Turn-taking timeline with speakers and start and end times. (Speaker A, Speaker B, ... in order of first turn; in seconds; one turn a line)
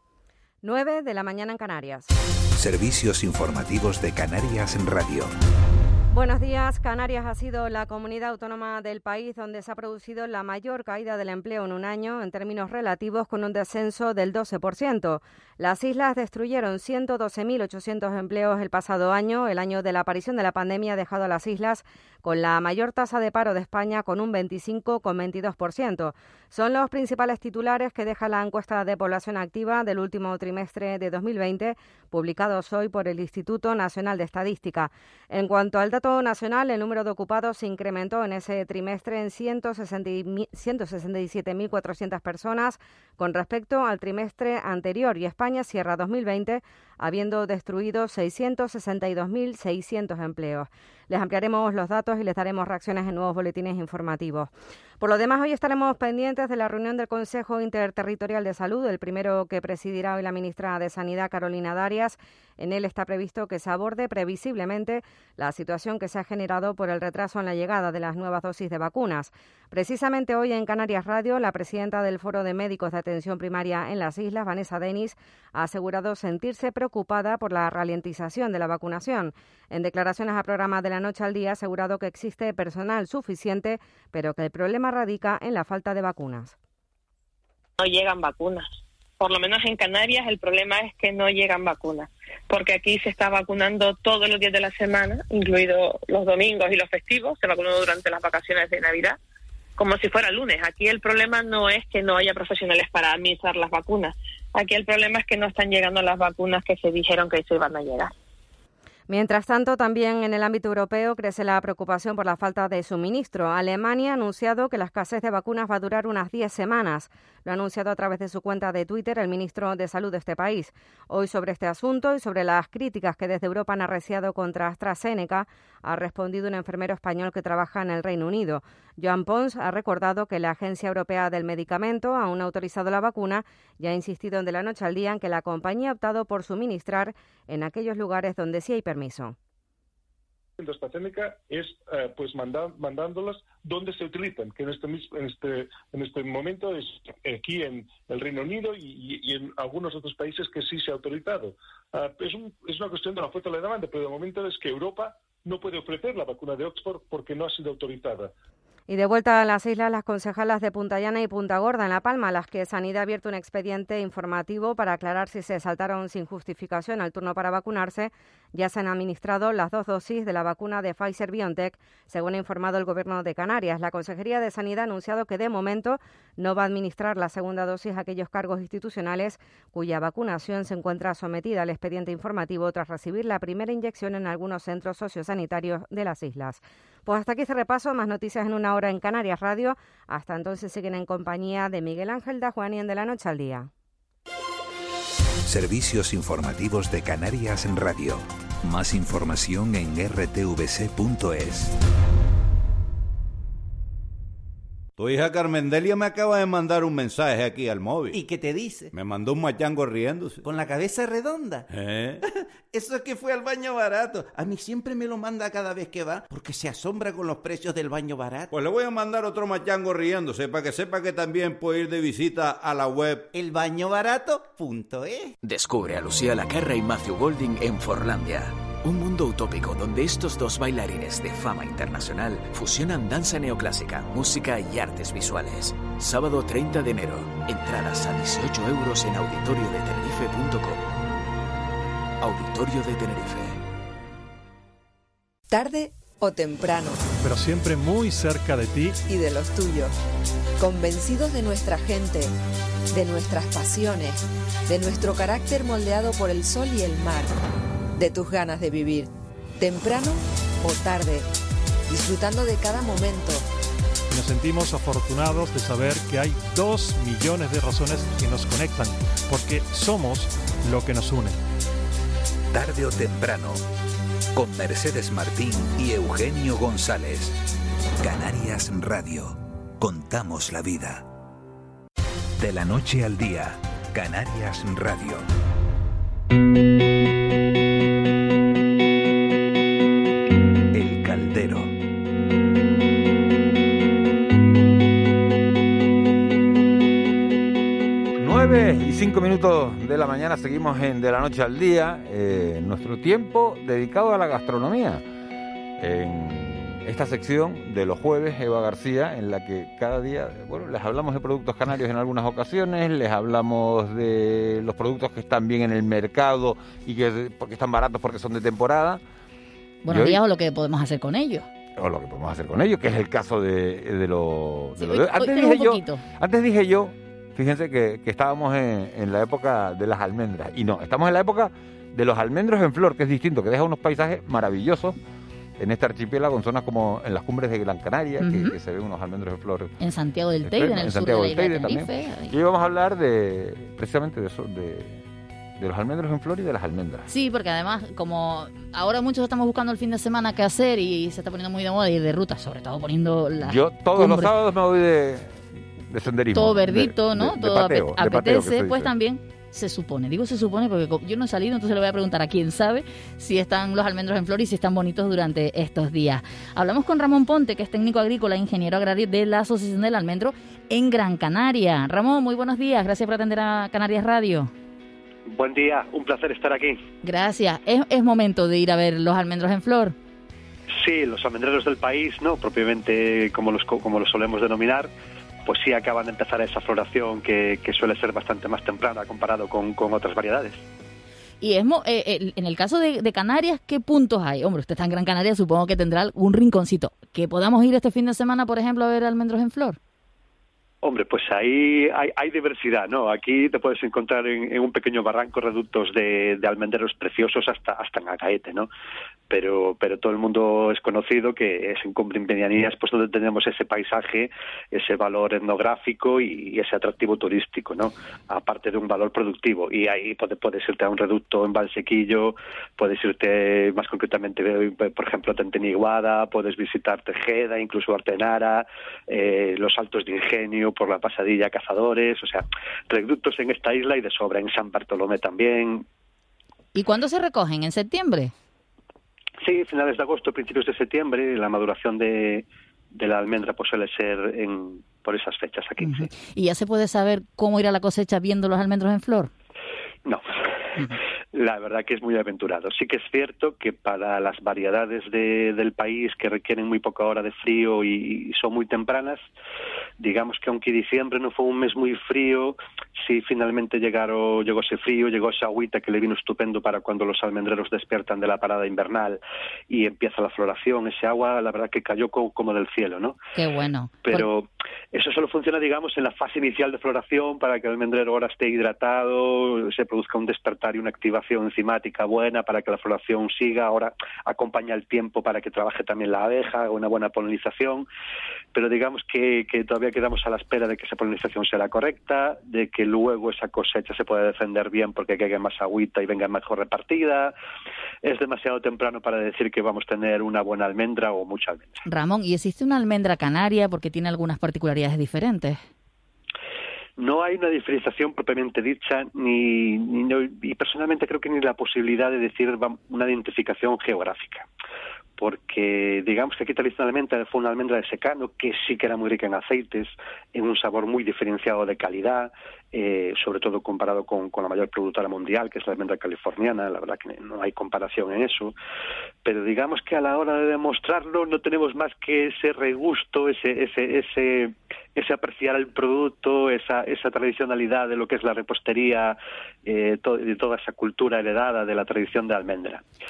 Speaker A: 0.6-2.1
Speaker B: 2.6-5.3
Speaker A: 6.1-86.5
Speaker C: 87.8-99.2
Speaker C: 99.8-108.1
Speaker A: 109.1-139.3
Speaker D: 140.6-158.3
Speaker A: 158.9-193.7
Speaker B: 195.4-201.7
Speaker E: 205.0-208.2
Speaker F: 208.1-208.9
Speaker E: 208.9-210.5
Speaker F: 210.4-211.7
Speaker E: 211.7-212.2
Speaker F: 212.7-213.3
Speaker E: 213.1-214.2
Speaker F: 214.1-218.5
Speaker E: 218.5-223.3
Speaker F: 223.3-225.3
Speaker G: 225.4-240.8
Speaker G: 242.2-243.6
Speaker H: 245.5-247.0
Speaker I: 247.2-249.0
Speaker H: 249.1-249.9
Speaker H: 250.6-252.3
Speaker H: 252.9-257.4
Speaker H: 258.0-261.2
Speaker H: 261.9-263.4
Speaker I: 264.1-271.4
Speaker B: 272.5-273.6
Speaker B: 274.3-277.4
Speaker B: 278.0-281.1
Speaker B: 282.4-285.2
Speaker B: 290.7-291.7
Speaker J: 298.2-305.0
Speaker J: 305.8-319.0
Speaker K: 319.8-321.5
Speaker J: 319.9-320.2
Speaker J: 321.8-334.9
Speaker K: 324.8-326.0
Speaker J: 335.6-339.7
Speaker K: 338.2-338.5
Speaker K: 339.8-342.3
Speaker J: 340.4-345.0
Speaker J: 345.6-347.1
Speaker K: 347.1-354.3
Speaker J: 353.4-358.9
Speaker K: 356.3-374.5
Speaker L: 375.2-376.8
Speaker K: 377.0-379.9
Speaker L: 380.7-384.9
Speaker L: 385.4-390.6
Speaker K: 391.4-399.8
Speaker L: 400.8-408.7
Speaker L: 409.3-435.8
Speaker K: 436.7-438.3
Speaker L: 439.4-446.1
Speaker K: 445.8-449.3
Speaker L: 451.3-459.2
Speaker L: 460.0-473.2
Speaker K: 473.3-474.3
Speaker L: 474.1-487.9
Speaker L: 488.5-497.3
Speaker L: 498.0-501.8
Speaker K: 501.9-505.6
Speaker L: 507.0-514.5
Speaker L: 515.2-528.5
Speaker L: 529.2-542.8